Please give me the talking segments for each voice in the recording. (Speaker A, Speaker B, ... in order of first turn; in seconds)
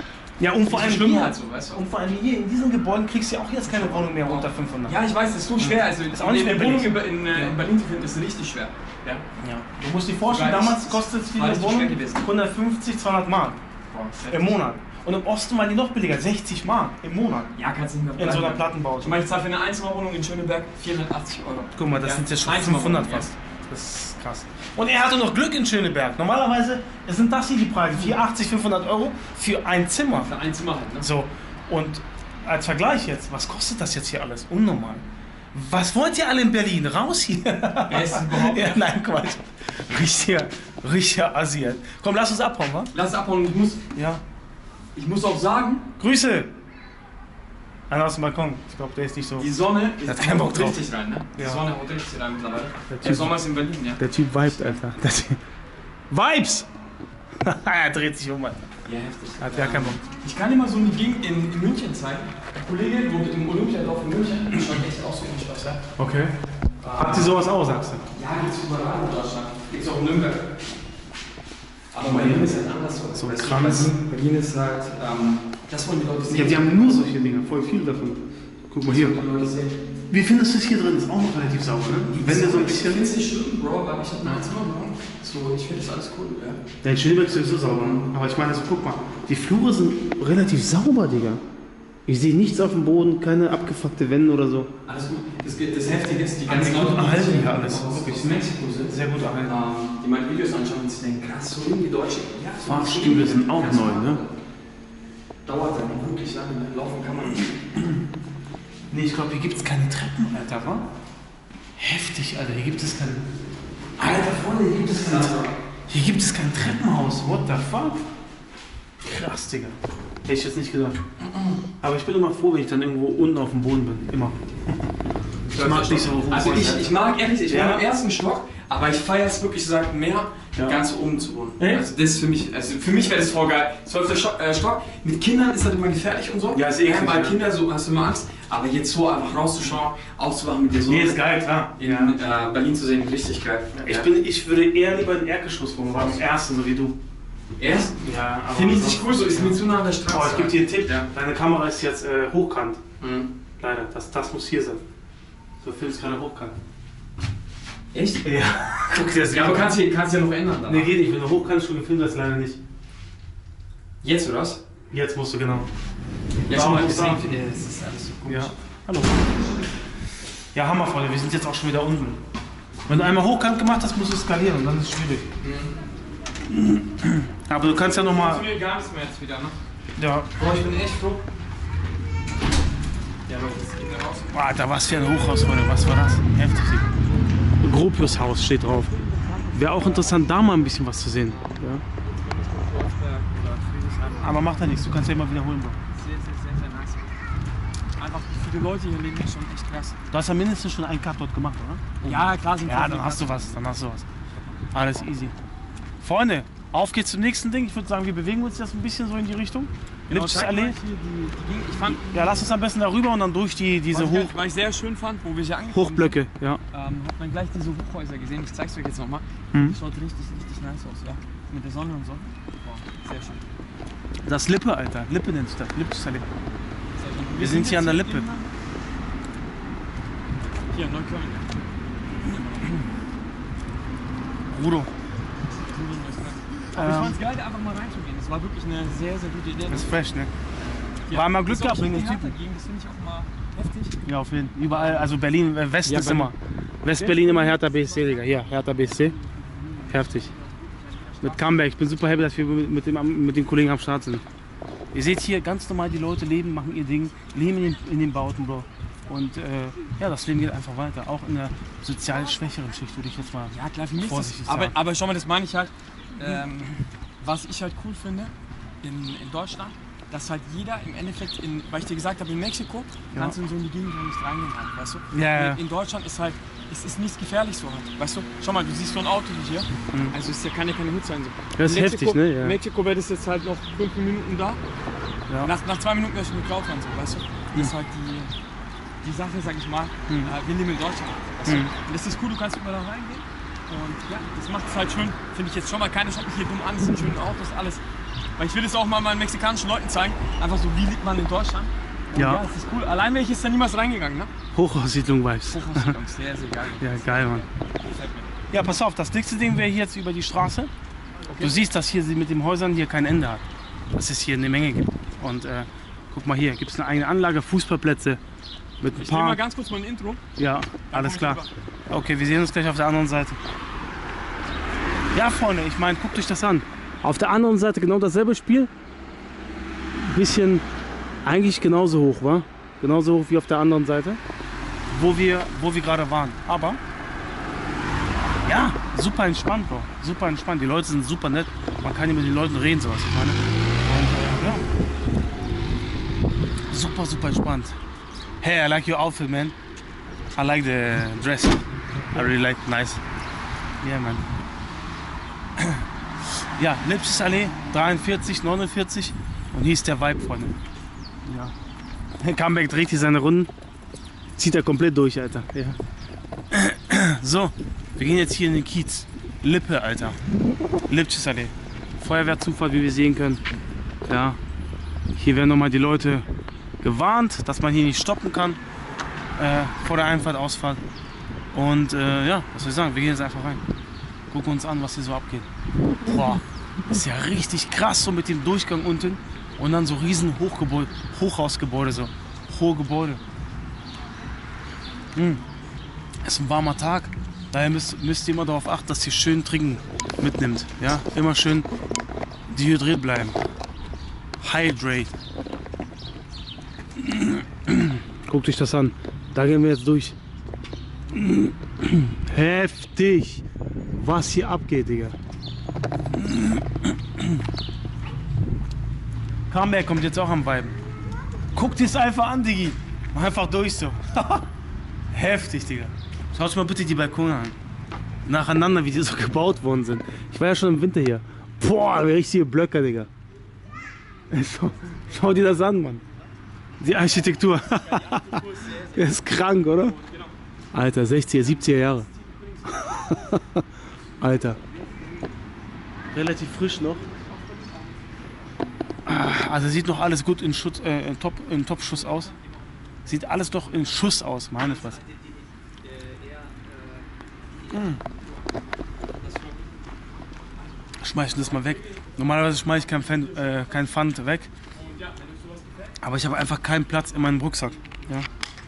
Speaker A: 0.4-5.0, 5.6-7.6, 9.4-13.6, 14.3-17.5, 18.2-19.2, 21.8-30.3, 31.0-42.9, 43.9-44.2, 46.0-46.5, 47.9-49.5, 50.0-50.8, 51.4-51.6, 52.9-53.3, 54.0-55.4, 56.1-56.7, 57.4-58.7, 59.4-60.0, 66.0-66.3, 67.0-68.0, 72.0-72.6, 73.1-73.9, 76.3-79.2, 80.1-83.1, 86.8-91.4, 92.0-94.7, 96.5-99.5, 102.6-104.2, 108.9-110.9, 111.8-113.2, 114.0-118.0, 119.0-121.0, 121.8-124.4, 125.5-126.9, 127.5-127.8, 130.6-130.8, 131.6-131.8, 136.5-137.4, 140.8-142.2, 143.8-147.0, 148.0-152.8, 153.6-154.8, 155.6-156.6, 158.2-159.8, 160.7-162.6, 164.9-165.7, 166.5-167.4, 168.2-169.2, 170.5-172.2, 172.9-175.3, 176.5-178.5, 180.0-180.5, 184.3-186.9, 187.6-188.9, 189.5-191.8, 194.2-195.8, 200.1-204.0, 204.7-205.3, 206.0-210.8, 211.9-214.3, 215.7-216.6, 219.5-219.8, 224.2-226.2, 227.4-228.3, 234.5-234.9, 236.7-237.2, 239.7-240.3, 241.1-242.3, 244.0-249.2, 249.9-250.3, 251.2-254.2, 254.9-264.7, 275.1-275.6, 281.6-282.6, 291.4-291.7, 302.1-302.4, 304.5-306.0, 306.8-307.4, 308.5-310.7, 311.4-318.2, 318.8-319.4, 320.4-323.4, 325.1-328.7, 329.9-330.6, 331.2-334.2, 334.9-336.8, 338.4-344.7, 346.7-347.8, 348.4-349.6, 350.3-353.0, 353.8-354.3, 355.6-360.6, 361.2-361.5, 362.2-363.5, 364.4-365.8, 366.5-370.2, 370.9-373.4, 374.0-374.4, 375.1-376.2, 376.8-378.6, 379.4-380.8, 381.5-383.6, 384.3-385.5, 386.0-393.2, 395.1-395.4, 396.2-401.7, 402.5-403.4, 404.4-405.1, 407.0-410.1, 411.1-415.1, 416.1-417.4, 419.5-420.8, 421.5-424.5, 425.1-427.6, 428.2-433.1, 434.3-436.0, 436.8-438.4, 438.9-440.0, 440.7-442.1, 442.7-443.7, 444.2-444.6, 446.1-447.0, 449.1-452.3, 453.1-455.0, 457.7-458.0, 461.0-464.5, 466.0-468.3
Speaker B: 0.7-1.8, 3.7-9.2, 10.2-12.3, 13.9-14.6, 17.5-23.3, 30.1-31.1, 37.9-38.8, 42.9-43.8, 44.9-45.9, 49.4-54.8, 58.8-65.9, 66.8-67.3, 68.1-70.5, 71.9-76.7, 78.8-79.8, 82.1-86.6, 87.7-88.1, 94.8-104.3, 105.5-107.5, 114.8-115.5, 121.2-121.6, 125.5-144.1, 145.9-146.2, 147.6-151.1, 153.0-153.3, 157.9-158.2, 159.3-160.9, 164.0-164.6, 166.4-168.6, 169.2-169.7, 175.4-175.8, 177.8-179.6, 180.4-181.2, 183.3-184.3, 188.7-190.6, 191.2-194.7, 195.9-197.1, 198.0-200.0, 202.0-203.6, 204.3-204.6, 210.1-212.0, 213.9-216.2, 216.7-223.5, 227.0-228.5, 230.7-232.9, 235.4-239.9, 240.8-244.0, 244.7-245.1, 245.8-246.3, 246.9-248.0, 249.7-251.5, 263.5-284.6, 285.4-288.3, 289.0-297.8, 298.4-304.3, 305.5-308.3, 311.2-311.6, 318.9-320.2, 320.9-321.5, 437.7-440.3, 442.1-443.3, 444.6-445.3, 447.0-448.4, 451.9-452.6, 453.6-454.0, 454.6-463.9, 464.7-466.0, 467.7-468.1